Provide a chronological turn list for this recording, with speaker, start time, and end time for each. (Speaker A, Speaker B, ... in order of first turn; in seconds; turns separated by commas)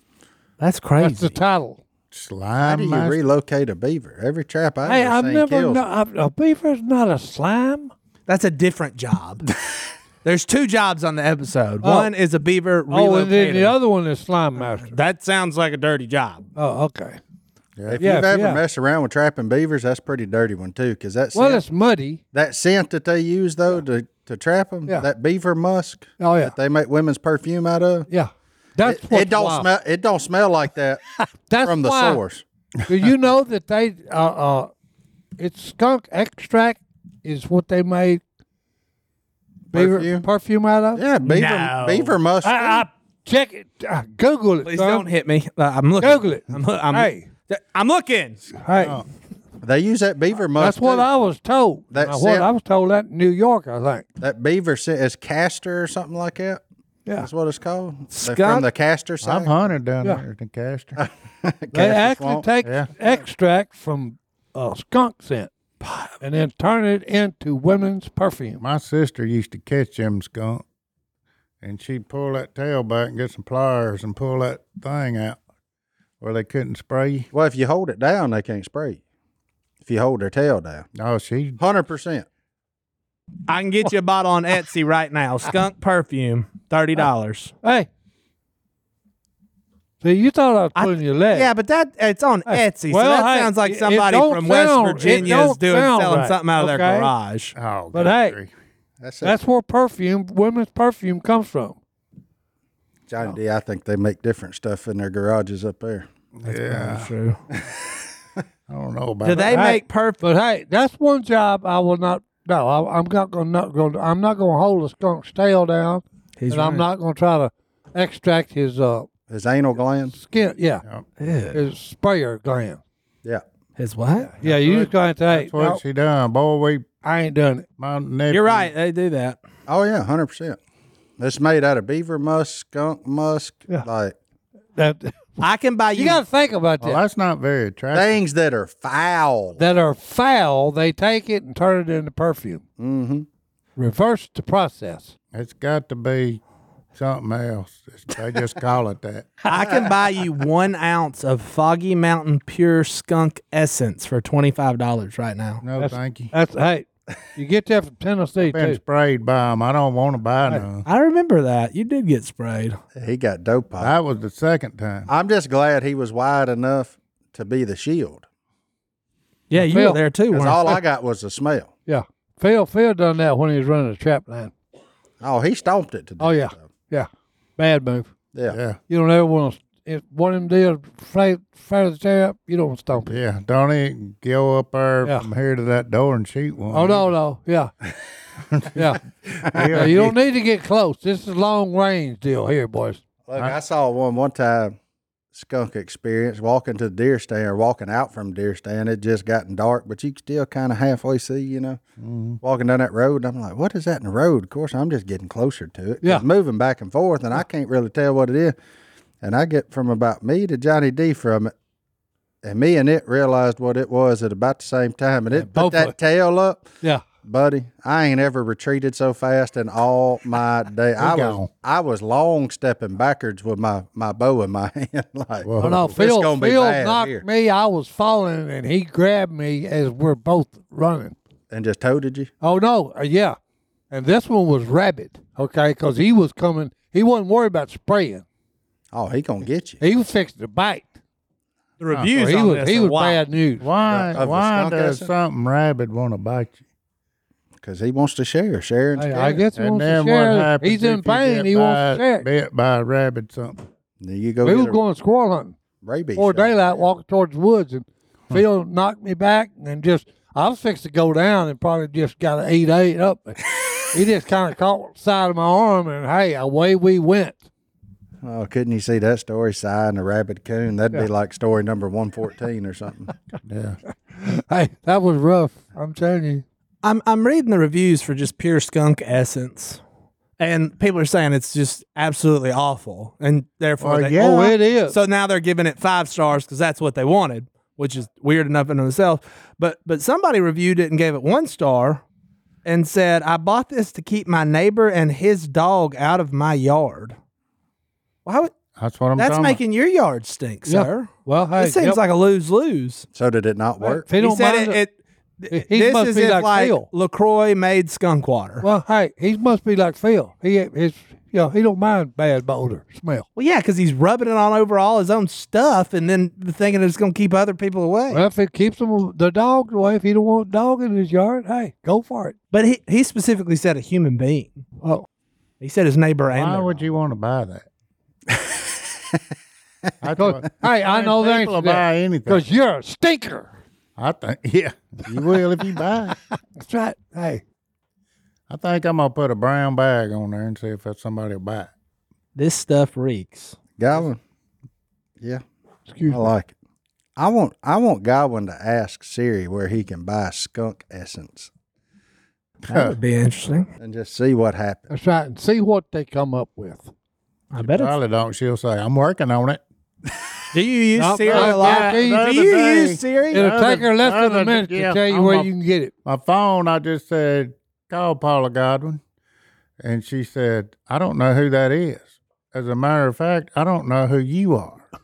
Speaker A: 0.6-1.4, Speaker B: 1.0-1.8, Speaker C: 2.1-3.2, Speaker D: 2.6-5.8, Speaker B: 4.8-7.9, Speaker A: 8.3-9.4, Speaker A: 10.2-13.7, Speaker B: 11.8-12.1, Speaker B: 12.9-14.9, Speaker A: 14.6-16.5, Speaker B: 16.6-17.2, Speaker D: 17.9-21.6, Speaker B: 18.0-18.6, Speaker B: 21.3-22.2, Speaker D: 22.3-28.1, Speaker B: 26.2-26.5, Speaker B: 28.1-29.7, Speaker D: 28.8-31.0, Speaker B: 31.1-32.2, Speaker D: 31.6-32.4, Speaker B: 32.9-34.7, Speaker B: 35.4-38.2, Speaker D: 39.7-40.2, Speaker B: 39.7-41.0, Speaker D: 40.9-42.9, Speaker A: 41.2-42.1, Speaker B: 42.4-45.0, Speaker A: 44.6-48.4, Speaker B: 46.0-47.3, Speaker B: 48.6-49.0, Speaker C: 48.7-49.0, Speaker D: 49.6-51.1, Speaker B: 50.6-54.0, Speaker D: 51.9-52.5, Speaker D: 54.2-56.6, Speaker D: 57.2-59.5, Speaker A: 58.1-58.6, Speaker C: 59.2-61.0, Speaker D: 61.0-62.5, Speaker B: 61.7-65.5, Speaker C: 62.6-62.9, Speaker A: 65.8-66.1, Speaker B: 66.2-68.6, Speaker C: 68.6-70.6, Speaker C: 71.6-75.4, Speaker C: 76.2-77.3, Speaker D: 77.3-79.0, Speaker D: 79.8-80.9, Speaker C: 81.0-81.6, Speaker D: 81.6-82.2, Speaker A: 83.5-87.5, Speaker B: 87.6-87.9, Speaker B: 90.0-91.5, Speaker A: 90.8-97.5, Speaker B: 92.5-97.1, Speaker C: 97.5-98.5, Speaker B: 97.9-98.4, Speaker D: 99.0-99.4, Speaker B: 99.2-101.8, Speaker D: 103.1-106.1, Speaker C: 106.4-107.1, Speaker A: 106.5-107.4, Speaker C: 108.7-109.6, Speaker A: 109.2-110.2, Speaker B: 109.4-119.1, Speaker A: 116.4-116.8, Speaker D: 119.3-120.1, Speaker B: 120.1-120.8, Speaker A: 121.2-121.6, Speaker B: 121.5-122.8, Speaker A: 123.8-124.3, Speaker B: 124.3-125.8, Speaker C: 124.4-126.8, Speaker B: 127.0-127.7, Speaker C: 127.8-128.7, Speaker A: 128.3-129.4, Speaker D: 129.7-130.6, Speaker D: 131.2-134.1, Speaker B: 134.8-135.4, Speaker A: 135.4-136.2, Speaker B: 135.9-137.0, Speaker C: 136.8-138.2, Speaker D: 137.9-139.6, Speaker B: 139.6-142.6, Speaker D: 142.8-143.3, Speaker B: 143.8-145.1, Speaker C: 145.3-146.4, Speaker C: 146.9-149.4, Speaker A: 149.5-155.6, Speaker D: 149.5-149.9, Speaker C: 155.6-156.3, Speaker B: 155.8-158.8, Speaker C: 158.4-160.8, Speaker A: 160.8-162.8, Speaker D: 162.9-163.9, Speaker C: 163.8-165.1, Speaker D: 165.1-168.2, Speaker A: 169.5-170.8, Speaker B: 169.6-170.0, Speaker D: 170.3-171.7, Speaker B: 171.9-174.5, Speaker D: 175.2-176.6, Speaker B: 176.2-178.1, Speaker C: 178.5-178.8, Speaker B: 178.9-183.1, Speaker C: 183.1-187.1, Speaker B: 185.0-185.3, Speaker B: 186.7-187.7, Speaker C: 188.5-188.8, Speaker B: 188.7-189.0, Speaker D: 189.3-189.7, Speaker C: 189.4-190.2, Speaker B: 189.7-193.0, Speaker D: 193.3-194.8, Speaker D: 195.3-201.8, Speaker C: 202.0-202.4, Speaker D: 202.4-208.5, Speaker D: 209.2-211.5, Speaker D: 212.4-216.7, Speaker B: 215.3-215.9, Speaker D: 217.2-227.2, Speaker C: 221.0-221.5, Speaker C: 225.4-225.9, Speaker B: 225.6-231.1, Speaker D: 231.5-232.3, Speaker B: 232.4-233.4, Speaker B: 233.9-238.2, Speaker D: 238.9-239.8, Speaker B: 239.8-240.9, Speaker A: 241.8-243.2, Speaker B: 242.1-243.7, Speaker C: 243.6-246.5, Speaker D: 243.9-245.1, Speaker D: 247.6-249.4, Speaker B: 248.9-252.2, Speaker C: 249.5-253.6, Speaker D: 254.0-254.8, Speaker B: 254.4-255.6, Speaker D: 255.8-256.8, Speaker B: 256.1-267.4, Speaker D: 268.2-273.1, Speaker C: 273.4-273.8, Speaker B: 274.2-276.4, Speaker A: 276.8-279.8, Speaker A: 280.4-292.0, Speaker C: 283.8-284.6, Speaker B: 284.2-284.9, Speaker A: 292.6-297.1, Speaker A: 298.2-298.5, Speaker C: 298.8-299.6, Speaker A: 299.1-303.1, Speaker B: 300.6-302.0, Speaker D: 303.1-304.1, Speaker B: 303.8-304.8, Speaker A: 304.1-308.6, Speaker B: 305.5-306.9, Speaker B: 308.6-313.2, Speaker A: 313.4-318.2, Speaker B: 318.1-322.3, Speaker A: 322.5-324.6, Speaker A: 325.6-326.8, Speaker C: 326.3-327.6, Speaker D: 328.3-328.7, Speaker C: 330.0-332.4, Speaker B: 330.1-333.5, Speaker C: 334.0-336.2, Speaker B: 336.6-337.4, Speaker C: 338.5-341.7, Speaker A: 342.3-343.6, Speaker D: 343.8-344.2, Speaker B: 345.9-346.3, Speaker D: 346.1-346.5, Speaker D: 347.2-351.5, Speaker C: 352.6-353.0, Speaker A: 352.7-353.7, Speaker D: 353.8-354.9, Speaker B: 354.9-356.9, Speaker A: 357.5-357.9, Speaker C: 357.6-359.6, Speaker A: 360.5-363.5, Speaker B: 361.0-362.3, Speaker C: 361.2-365.5, Speaker B: 363.3-365.9, Speaker C: 366.0-369.0, Speaker C: 369.8-374.8